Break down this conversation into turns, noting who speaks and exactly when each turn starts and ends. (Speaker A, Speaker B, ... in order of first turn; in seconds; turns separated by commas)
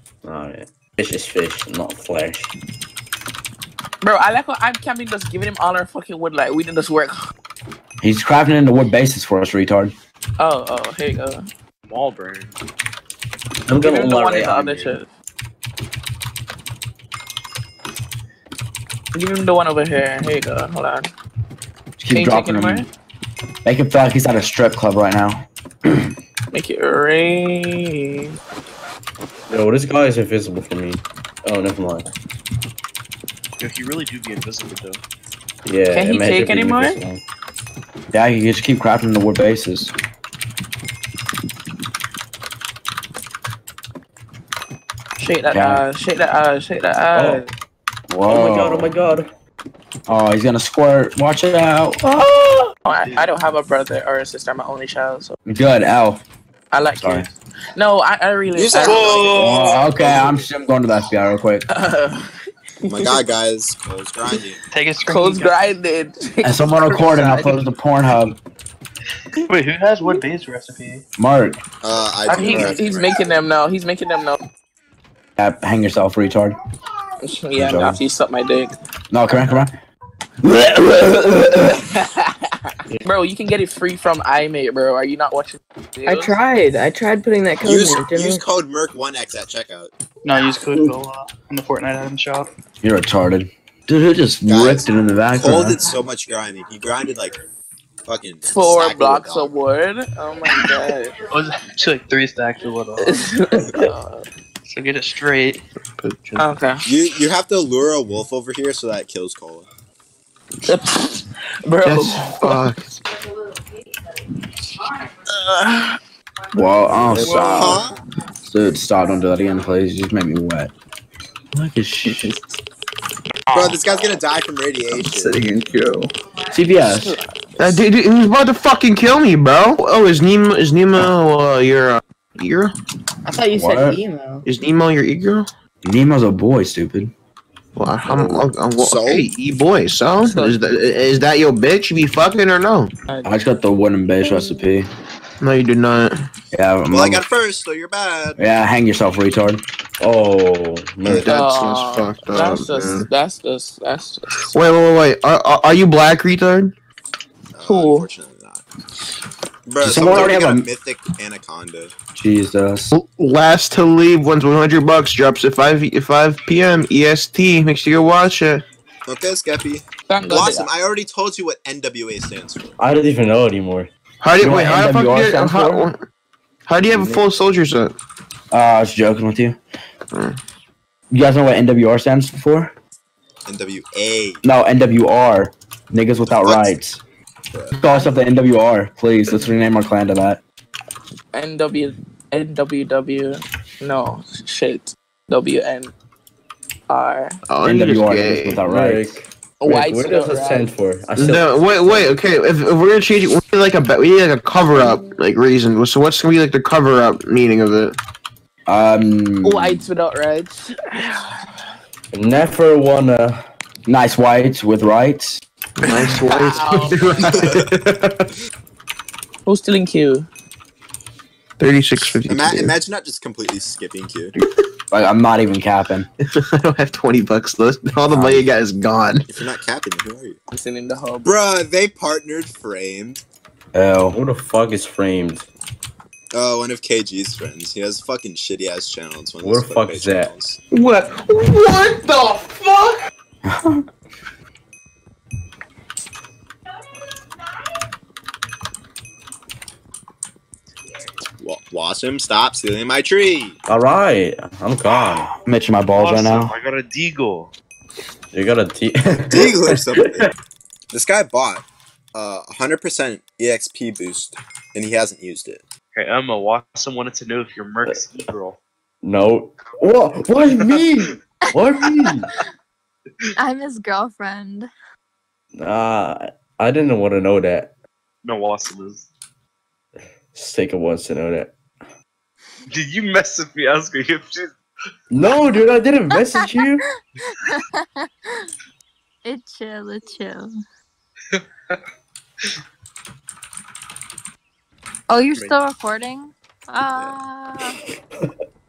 Speaker A: 0.2-2.5, Speaker B: 4.0-7.2, Speaker C: 8.0-9.9, Speaker B: 10.4-11.5, Speaker D: 11.9-12.5, Speaker A: 13.7-15.0, Speaker B: 13.8-15.1, Speaker B: 19.1-21.1, Speaker C: 22.0-22.8, Speaker B: 22.1-22.9, Speaker C: 23.6-26.1, Speaker B: 26.5-28.3, Speaker A: 29.5-32.0, Speaker D: 33.6-35.0, Speaker A: 35.7-37.2, Speaker B: 35.9-37.0, Speaker C: 38.1-39.9, Speaker B: 45.2-47.5, Speaker C: 45.5-45.8, Speaker A: 47.1-47.4, Speaker C: 48.1-49.0, Speaker A: 48.3-49.3, Speaker C: 50.1-52.0, Speaker B: 52.0-55.4, Speaker C: 55.5-56.2, Speaker B: 56.7-59.5, Speaker C: 56.9-57.3, Speaker E: 58.5-59.3, Speaker D: 58.8-59.9, Speaker C: 59.3-61.7, Speaker B: 61.7-63.2, Speaker E: 62.9-64.6, Speaker F: 64.7-65.7, Speaker B: 65.1-67.3, Speaker C: 66.4-68.3, Speaker F: 67.0-67.7, Speaker F: 69.4-71.0, Speaker C: 71.2-71.6, Speaker E: 71.8-73.2, Speaker B: 72.3-74.4, Speaker F: 72.5-72.9, Speaker C: 75.4-76.5, Speaker B: 77.2-78.7, Speaker C: 77.5-78.0, Speaker C: 79.1-79.7, Speaker C: 80.4-81.7, Speaker B: 81.9-86.3, Speaker G: 86.0-88.5, Speaker E: 87.6-89.9, Speaker F: 90.2-92.5, Speaker C: 92.8-95.9, Speaker E: 94.5-97.4, Speaker E: 98.1-99.6, Speaker B: 98.5-101.2, Speaker F: 100.5-100.8, Speaker F: 101.3-103.9, Speaker B: 103.0-104.3, Speaker F: 104.7-105.6, Speaker H: 106.0-106.3, Speaker B: 106.4-106.9, Speaker E: 106.8-109.7, Speaker B: 110.6-112.7, Speaker H: 111.8-113.0, Speaker B: 115.2-116.0, Speaker C: 116.5-117.7, Speaker H: 117.1-117.8, Speaker D: 117.2-117.8, Speaker E: 117.2-118.0, Speaker C: 118.5-120.7, Speaker C: 121.5-122.4, Speaker D: 123.5-124.2, Speaker E: 123.5-125.4, Speaker G: 125.2-126.1, Speaker C: 126.5-127.2, Speaker H: 127.6-132.7, Speaker G: 133.2-134.5, Speaker C: 133.5-134.0, Speaker H: 134.4-135.5, Speaker C: 135.8-137.1, Speaker H: 137.8-142.9, Speaker A: 138.1-138.5, Speaker E: 138.8-139.3, Speaker B: 140.2-140.6, Speaker B: 143.1-143.4, Speaker C: 143.2-144.9, Speaker H: 145.4-146.1, Speaker C: 146.5-147.3, Speaker E: 146.9-148.4, Speaker C: 148.4-149.6, Speaker A: 150.0-151.3, Speaker H: 151.0-153.1, Speaker B: 151.3-154.6, Speaker H: 154.5-156.7, Speaker E: 157.6-158.6, Speaker B: 157.6-158.1, Speaker E: 159.7-161.9, Speaker C: 159.8-160.7, Speaker C: 162.2-162.9, Speaker H: 162.9-168.6, Speaker E: 169.1-172.8, Speaker B: 170.1-170.7, Speaker A: 172.8-173.9, Speaker H: 174.2-176.1, Speaker C: 174.4-175.9, Speaker H: 176.7-177.9, Speaker C: 176.9-177.2, Speaker C: 178.5-179.6, Speaker C: 181.1-182.7, Speaker E: 183.5-184.4, Speaker C: 184.4-187.0, Speaker E: 186.3-186.7, Speaker C: 187.8-190.4, Speaker B: 191.3-195.9, Speaker B: 196.9-197.4, Speaker H: 197.5-198.6, Speaker C: 197.6-199.2, Speaker A: 198.6-202.2, Speaker B: 199.6-200.8, Speaker H: 201.2-208.0, Speaker C: 208.7-209.9, Speaker B: 209.4-211.5, Speaker A: 212.1-213.4, Speaker C: 213.9-215.4, Speaker H: 215.8-218.1, Speaker B: 216.2-217.3, Speaker B: 219.4-220.3, Speaker H: 221.6-222.8, Speaker E: 222.1-224.3, Speaker C: 224.9-226.1, Speaker H: 226.3-229.3, Speaker C: 228.1-228.5, Speaker E: 229.3-230.4, Speaker B: 230.5-231.3, Speaker E: 231.2-233.2, Speaker C: 233.7-234.2, Speaker A: 234.1-235.5, Speaker E: 236.3-240.6, Speaker A: 239.4-240.3, Speaker H: 240.7-243.0, Speaker C: 243.5-243.8, Speaker E: 251.4-253.6, Speaker A: 253.7-255.3, Speaker C: 255.4-256.5, Speaker D: 255.9-257.5, Speaker A: 258.3-260.1, Speaker E: 259.3-260.3, Speaker E: 260.9-265.6, Speaker D: 265.9-268.6, Speaker A: 267.9-268.1, Speaker A: 269.0-272.3, Speaker I: 272.0-272.5, Speaker I: 273.4-274.7, Speaker A: 275.6-277.7, Speaker D: 278.2-279.1, Speaker A: 280.3-281.6, Speaker D: 282.7-284.6, Speaker A: 285.1-286.8, Speaker I: 287.4-288.1, Speaker I: 289.2-290.6, Speaker D: 291.3-291.8, Speaker I: 295.1-297.8, Speaker E: 296.9-297.2